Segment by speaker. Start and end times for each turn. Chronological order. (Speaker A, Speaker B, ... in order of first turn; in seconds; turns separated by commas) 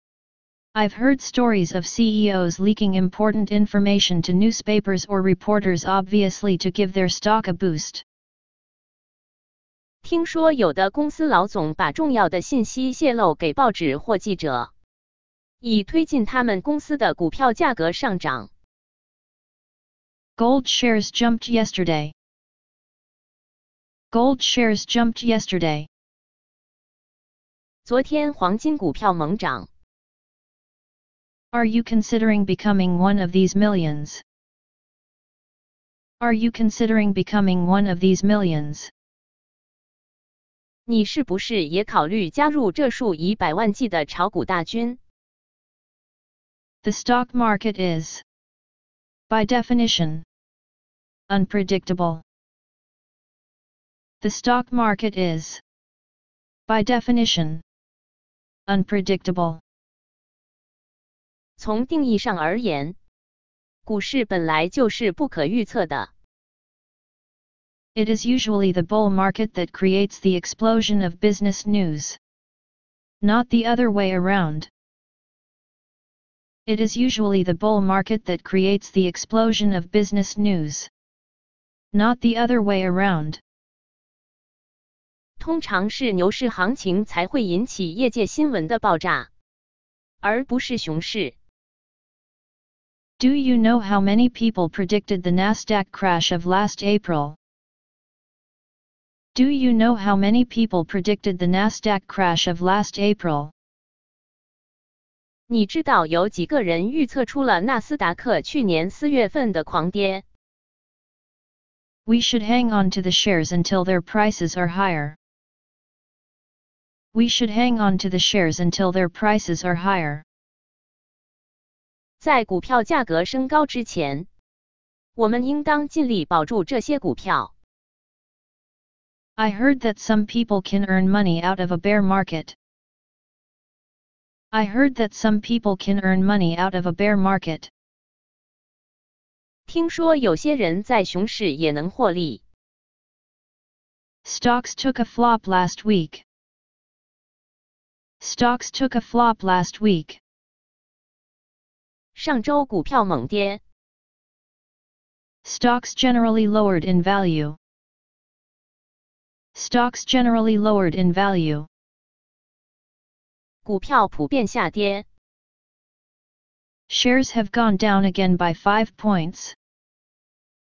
Speaker A: 0.7-8.0, Speaker B: 10.0-14.7, Speaker B: 15.6-18.5, Speaker A: 20.4-22.1, Speaker A: 24.1-25.9, Speaker B: 27.8-29.7, Speaker A: 31.5-34.2, Speaker A: 36.2-38.9, Speaker B: 40.9-45.0, Speaker A: 46.8-48.2, Speaker A: 49.3-50.2, Speaker A: 51.3-52.2, Speaker A: 54.2-55.6, Speaker A: 56.7-57.6, Speaker A: 58.7-59.6, Speaker B: 61.6-63.0, Speaker B: 63.9-66.1, Speaker A: 67.9-72.2, Speaker A: 73.2-74.7, Speaker A: 76.7-80.9, Speaker A: 81.9-83.4, Speaker B: 85.4-89.3, Speaker B: 90.2-91.3, Speaker A: 93.2-97.4, Speaker A: 99.3-103.5, Speaker B: 105.5-110.2, Speaker A: 112.0-115.2, Speaker A: 117.1-120.2, Speaker B: 122.2-124.3, Speaker B: 125.2-127.5, Speaker A: 129.4-132.6, Speaker A: 134.5-137.7, Speaker B: 139.7-142.4, Speaker A: 144.2-146.2, Speaker A: 148.2-150.2, Speaker B: 152.1-153.6, Speaker A: 155.4-157.6, Speaker A: 159.5-161.7, Speaker B: 163.6-165.1, Speaker A: 166.9-169.6